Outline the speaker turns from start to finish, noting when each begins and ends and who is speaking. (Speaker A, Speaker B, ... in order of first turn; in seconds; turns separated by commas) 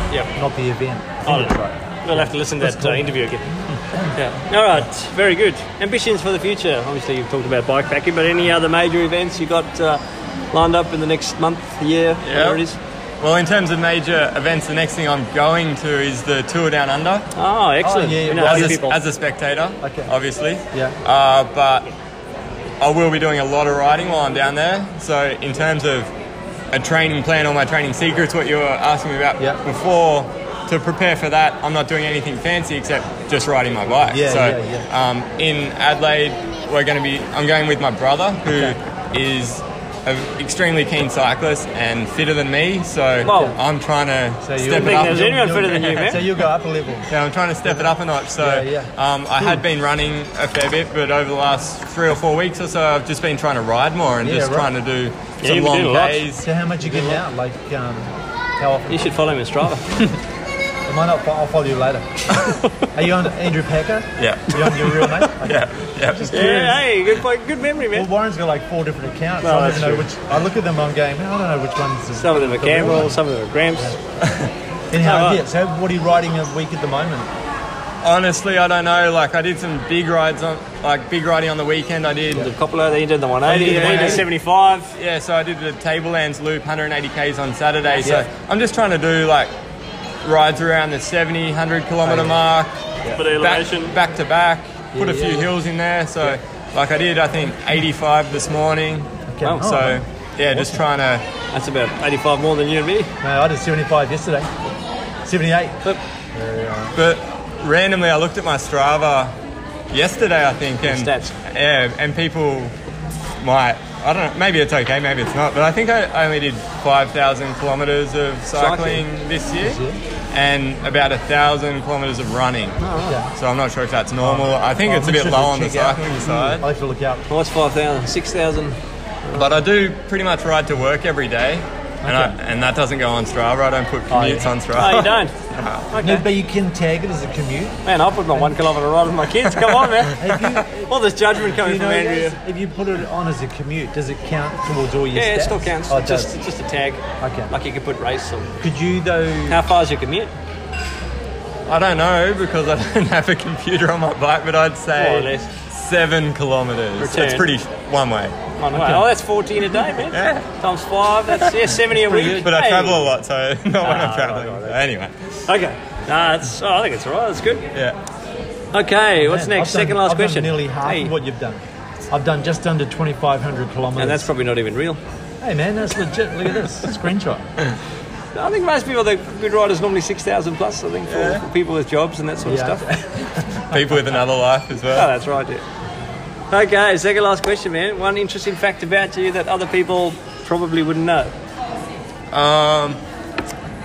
Speaker A: 0.3-4.1, Speaker B: 1.3-3.5, Speaker B: 4.1-10.0, Speaker B: 10.5-12.8, Speaker C: 12.2-12.6, Speaker C: 13.2-17.3, Speaker B: 17.4-19.0, Speaker A: 17.8-19.0, Speaker C: 18.3-21.9, Speaker A: 19.8-20.1, Speaker A: 20.7-21.0, Speaker C: 22.8-26.1, Speaker C: 26.7-46.4, Speaker A: 34.1-34.9, Speaker A: 38.5-38.8, Speaker B: 43.2-43.6, Speaker A: 43.2-43.6, Speaker A: 44.4-47.1, Speaker B: 44.7-46.2, Speaker C: 47.1-56.5, Speaker A: 47.6-49.6, Speaker A: 54.2-54.7, Speaker B: 55.4-56.3, Speaker A: 56.4-59.1, Speaker B: 56.8-57.2, Speaker B: 58.9-60.0, Speaker A: 60.9-66.8, Speaker C: 64.2-66.5, Speaker B: 66.3-68.1, Speaker A: 67.9-74.0, Speaker B: 69.4-70.1, Speaker B: 72.2-74.0, Speaker C: 74.2-74.5, Speaker A: 74.9-77.3, Speaker B: 75.0-75.4, Speaker C: 78.0-82.5, Speaker B: 82.3-84.9, Speaker A: 83.5-84.3, Speaker C: 83.6-84.3, Speaker C: 85.0-89.5, Speaker C: 90.2-101.2, Speaker A: 92.0-92.4, Speaker B: 93.1-93.9, Speaker A: 94.9-95.5, Speaker A: 99.3-100.8, Speaker B: 99.4-99.8, Speaker B: 101.5-103.1, Speaker A: 103.2-104.5, Speaker A: 105.2-105.8, Speaker A: 106.3-106.9, Speaker C: 107.0-109.3, Speaker C: 109.9-112.8, Speaker B: 110.8-111.3, Speaker C: 113.4-119.8, Speaker B: 118.5-119.0, Speaker A: 119.6-120.0, Speaker C: 120.3-122.8, Speaker B: 122.8-123.2, Speaker A: 123.0-123.3, Speaker C: 123.3-126.7, Speaker A: 124.2-127.2, Speaker B: 127.3-129.5, Speaker C: 129.3-135.9, Speaker A: 132.0-132.4, Speaker A: 134.1-134.5, Speaker B: 134.8-135.3, Speaker B: 135.9-136.3, Speaker A: 136.0-137.8, Speaker B: 137.8-142.4, Speaker C: 139.7-140.0, Speaker A: 140.2-146.3, Speaker B: 145.1-148.5, Speaker A: 147.2-147.5, Speaker A: 148.6-149.6, Speaker B: 149.5-150.3, Speaker C: 151.7-158.4, Speaker B: 154.9-155.5, Speaker B: 157.0-157.5, Speaker B: 158.6-163.1, Speaker A: 158.7-159.1, Speaker C: 160.1-160.5, Speaker A: 161.8-162.5, Speaker C: 162.3-165.1, Speaker B: 163.8-164.8, Speaker B: 165.5-167.7, Speaker B: 168.7-171.1, Speaker A: 169.2-174.3, Speaker B: 174.0-175.0, Speaker A: 175.4-177.5, Speaker B: 178.3-182.8, Speaker C: 181.1-181.4, Speaker A: 182.4-183.9, Speaker C: 183.7-185.1, Speaker B: 184.9-185.6, Speaker B: 186.5-191.3, Speaker C: 192.3-193.0